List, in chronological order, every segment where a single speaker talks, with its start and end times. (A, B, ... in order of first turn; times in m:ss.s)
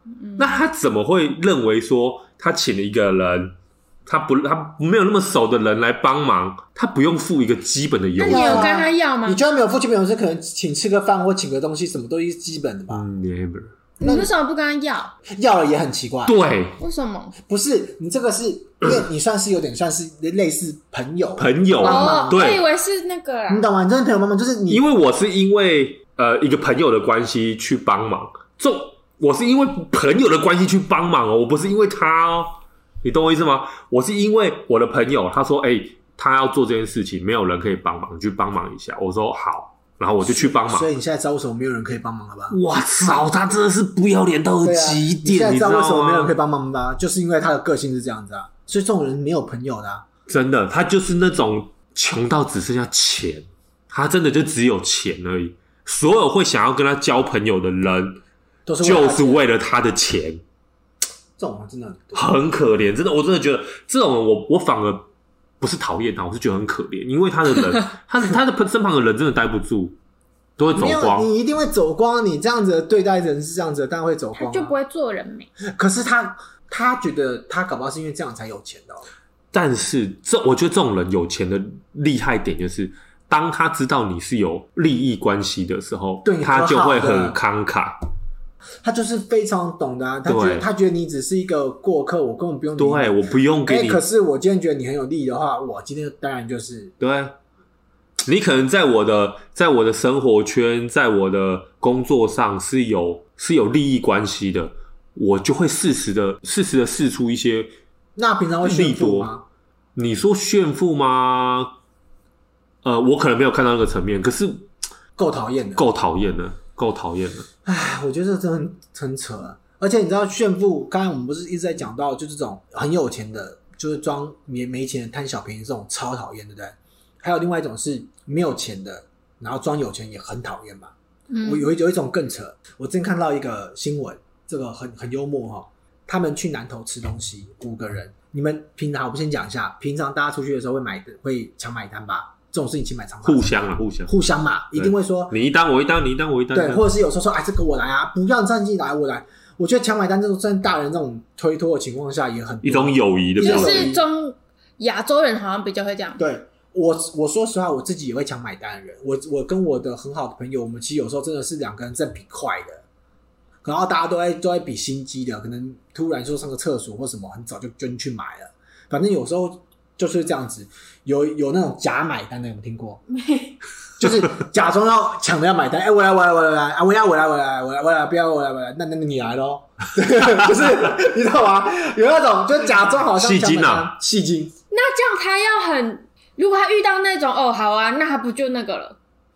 0:00.2-0:00.6 A
0:00.4-0:08.7 B
0:08.2-0:09.4 A
0:08.2-0:13.0 C
0:12.9-0:13.7 B
0:14.0-0:15.2 A
0:14.0-0:14.3 C
0:15.3-0:16.4 C
0:16.3-0:16.8 B
0:16.8-0:17.4 A
0:17.4-0:22.4 C
0:21.4-0:22.6 B
0:21.8-0:23.7 A
0:23.5-0:24.8 C
0:24.7-0:40.9 B
0:40.2-0:42.6 C
0:42.5-0:46.3 B
0:44.6-0:50.1 C
0:50.3-0:58.2 B
0:58.7-0:59.4 C
0:58.8-1:00.4 B
1:01.4-1:02.3 C
1:02.1-1:05.1 B
1:05.6-1:10.0 B
1:10.6-1:11.3 B
1:10.7-1:14.8 C
1:14.4-1:15.5 A
1:15.6-1:19.1 C
1:19.5-1:28.0 B
1:26.2-1:27.4 C
1:28.8-1:36.9 C
1:30.3-1:30.7 B
1:32.8-1:34.0 B
1:37.0-1:37.3 B
1:38.3-1:47.7 B
1:48.2-1:49.4 C
1:48.6-1:49.3 B
1:50.0-1:51.7 B
1:52.8-1:54.7 B
1:55.2-1:55.9 C
1:55.8-1:57.5 B
1:57.6-2:10.9 C
2:11.3-2:11.7 A
2:11.4-2:25.4 C
2:23.2-2:24.1 B
2:24.8-2:26.9 B
2:26.5-2:34.0 C
2:32.6-2:33.9 B
2:33.4-2:36.2 A
2:36.2-2:42.8 C
2:43.6-2:53.0 C
2:53.1-2:53.6 A
2:54.0-3:04.5 C
3:03.1-3:04.0 B
3:04.7-3:09.0 A